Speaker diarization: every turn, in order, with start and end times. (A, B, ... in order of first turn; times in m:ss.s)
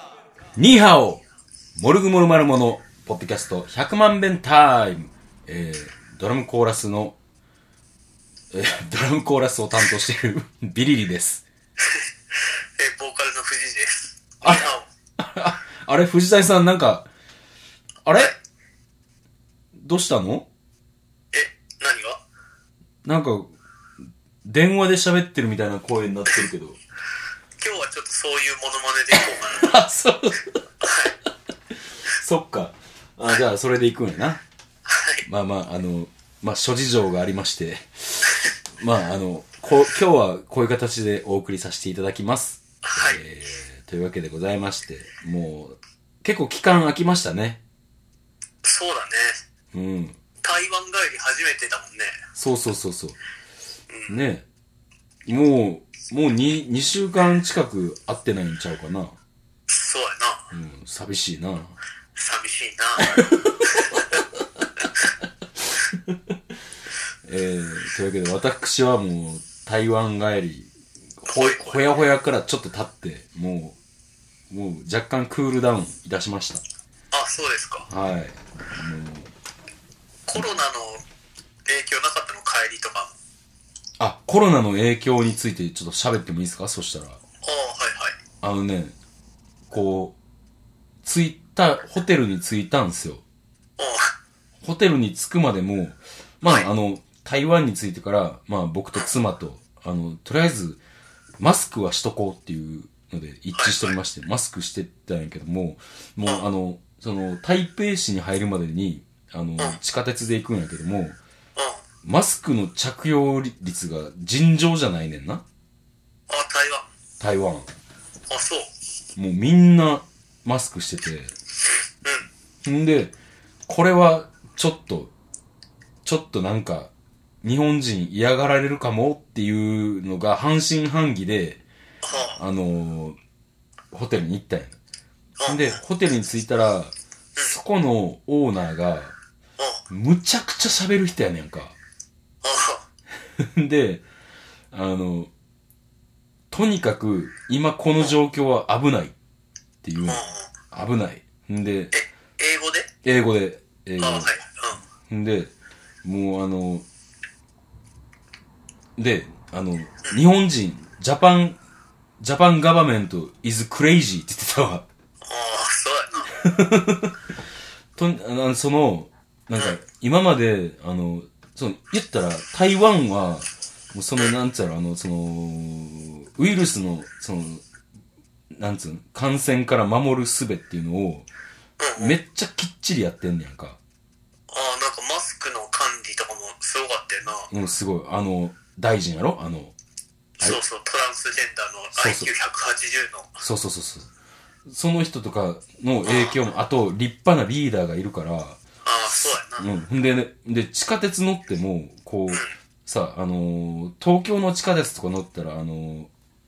0:00.6-0:01.2 A
0:01.8-0:07.2 A
0:08.5-0:11.4 A
0:12.8-0:14.9 B
0:14.4-0:17.1 A
0:18.0-0:18.3 A
0:19.8-0:20.5 A
0:21.3-0:22.2 B
0:23.0-0:23.5 A
0:24.4-0:26.8 A
0:27.6-0:29.8 B
0:29.2-0:30.6 A
0:30.8-0:31.1 B
0:32.2-0:34.4 A
0:34.9-0:35.2 B
0:35.2-0:47.6 A
0:42.8-0:43.2 B
0:48.6-0:49.4 B
0:49.7-0:50.2 A
0:50.4-0:52.2 B
0:52.4-0:53.2 A
0:53.9-0:54.2 B
0:54.1-0:54.4 A
0:55.3-0:59.2 A
0:59.7-1:00.5 B
1:00.5-1:01.8 A
1:02.2-1:04.2 B
1:03.1-1:04.9 A
1:05.6-1:06.3 A
1:07.2-1:10.7 A
1:11.2-1:13.8 A
1:11.3-1:12.0 B
1:14.5-1:16.6 A
1:17.1-1:17.9 B
1:17.9-1:19.3 A
1:20.3-1:21.0 B
1:21.7-1:23.1 B
1:24.0-1:27.2 A
1:27.4-1:28.2 B
1:28.4-1:29.0 A
1:29.7-1:30.2 A
1:31.0-1:33.2 A
1:33.8-1:34.1 B
1:34.6-1:40.8 A
1:41.4-1:51.2 A
1:43.5-1:44.0 B
1:51.6-1:51.8 B
1:52.0-1:55.4 A
1:56.3-1:56.9 B
1:57.2-1:57.7 A
1:58.3-1:58.7 B
1:59.2-2:01.3 A
2:02.6-2:03.1 A
2:03.7-2:05.1 A
2:06.0-2:06.9 A
2:07.4-2:11.6 A
2:12.0-2:12.4 B
2:12.4-2:13.2 A
2:13.9-2:14.8 A
2:15.4-2:15.8 B
2:15.5-2:19.2 A
2:19.9-2:21.8 A
2:22.4-2:22.8 B
2:23.4-2:24.0 A
2:24.7-2:25.3 A
2:26.5-2:29.2 A
2:29.8-2:31.9 A
2:30.0-2:30.5 B
2:31.9-2:32.9 B
2:33.0-2:34.3 A
2:34.0-2:34.8 B
2:35.1-2:35.5 A
2:36.0-2:36.9 A
2:39.0-2:41.6 A
2:42.2-2:44.8 A
2:45.2-2:46.4 B
2:46.3-2:47.2 A
2:48.0-2:57.6 A
2:58.5-3:01.3 A
3:01.8-3:02.2 B
3:02.0-3:03.8 A
3:04.5-3:07.5 B
3:07.5-3:09.7 A
3:10.4-3:13.4 B
3:12.0-3:12.3 A
3:13.4-3:14.1 A
3:14.7-3:26.1 A
3:16.0-3:16.5 B
3:18.8-3:19.7 B
3:22.3-3:22.5 B